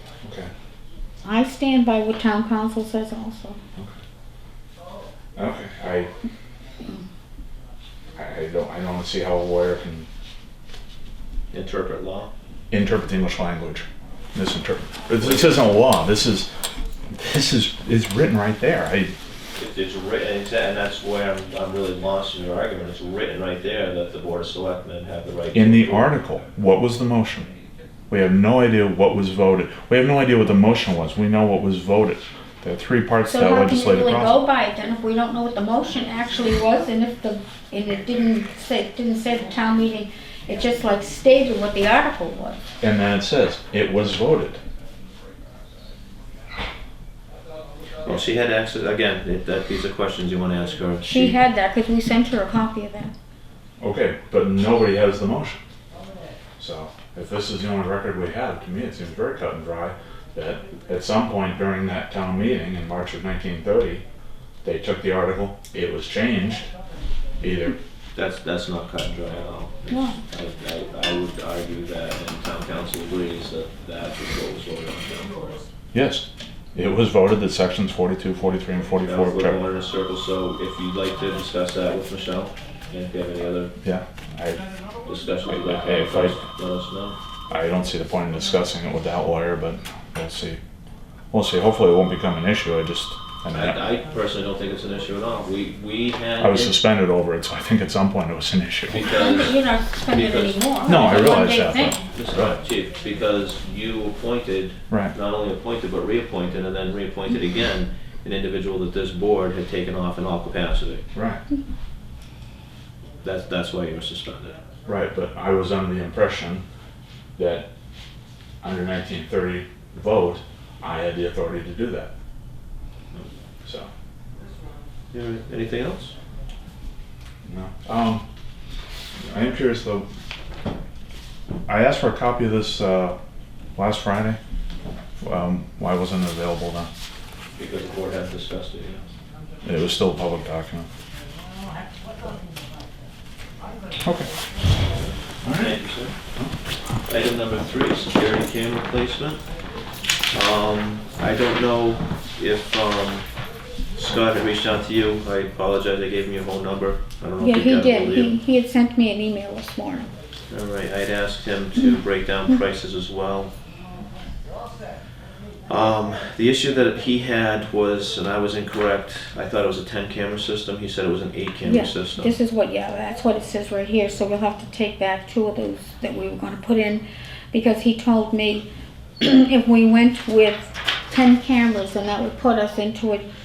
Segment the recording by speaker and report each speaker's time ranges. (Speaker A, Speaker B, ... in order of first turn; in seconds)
Speaker A: 0.2-0.5, 5.3-6.1, 8.2-10.1, 12.7-16.5, 17.1-19.1, 25.5-27.5, 28.1-34.4, 42.8-44.6, 53.8-55.6, 56.6-64.0, 64.6-66.7, 67.4-67.8, 75.9-79.6, 83.8-84.6, 85.5-86.4, 87.5-90.6, 91.3-93.8, 96.4-99.0, 100.8-102.6, 111.1-111.4, 114.8-116.6, 117.4-117.7, 118.6-122.1, 123.6-123.9, 127.5-128.2, 129.3-130.1, 131.7-133.2, 133.8-134.4, 135.2-136.9, 139.6-140.9, 144.0-144.3, 145.4-145.8
Speaker B: 1.2-3.6, 33.2-42.6, 51.0-53.1, 69.9-70.2, 99.0-102.0, 157.4-160.1, 171.6-178.7, 179.2-183.2
Speaker C: 11.5-12.3, 15.2-15.6, 19.6-26.1, 48.0-51.4, 68.1-75.4, 79.0-83.7, 85.0-87.2, 93.5-96.8, 98.9-101.4, 102.1-111.0, 113.2-114.6, 125.1-126.1, 137.6-139.0, 145.5-146.1, 147.1-149.4, 150.3-153.2, 153.9-158.3, 160.5-163.5, 165.7-172.3